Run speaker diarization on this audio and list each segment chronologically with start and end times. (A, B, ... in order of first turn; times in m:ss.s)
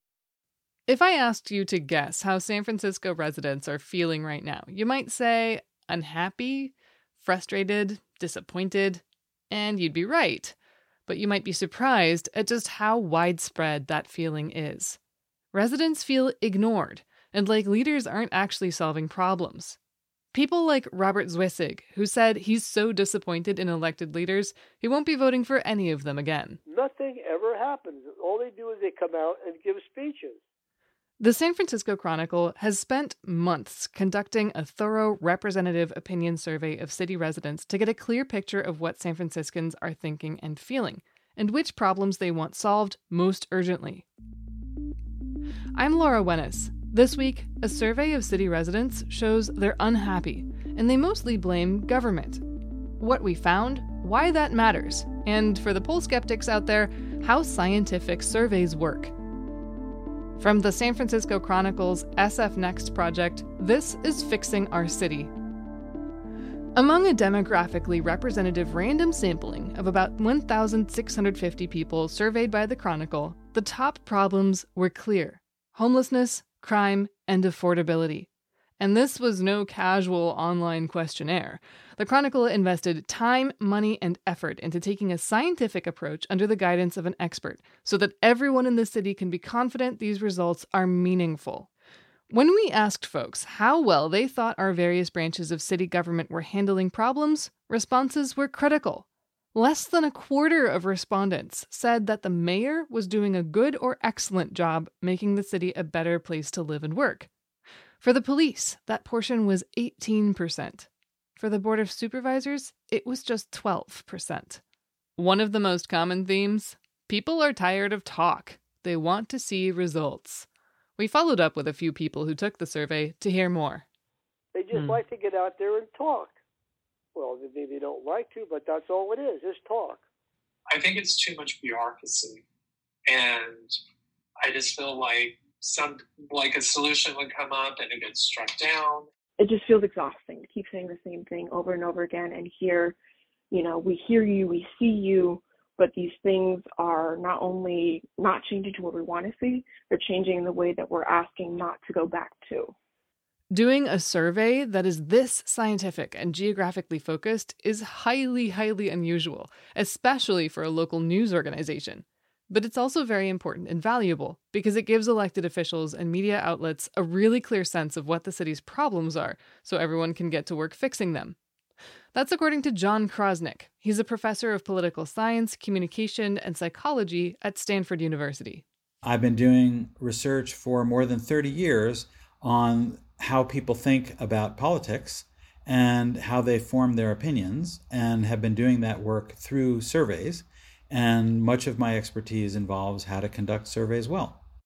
0:00.9-0:10.6 A
0:11.1-0:15.0 A
0:15.5-0:19.8 A
0:20.3-0:26.6 A
0:26.7-0:30.4 B
0:31.2-0:44.1 A
0:45.8-0:52.4 A
0:53.0-0:59.1 A
1:00.4-1:05.3 A
1:06.8-1:18.3 A
1:18.8-1:31.7 A
1:32.3-1:47.3 A
1:48.0-1:54.6 A
1:55.2-2:00.5 A
2:01.0-2:03.8 A
2:04.5-2:06.4 B
2:04.7-2:05.0 A
2:07.1-2:10.0 B
2:10.7-2:12.4 C
2:13.1-2:13.8 C
2:14.4-2:19.1 C
2:19.4-2:23.0 D
2:23.5-2:32.7 D
2:33.5-2:51.4 A
2:52.1-2:58.6 A
2:59.0-3:14.4 E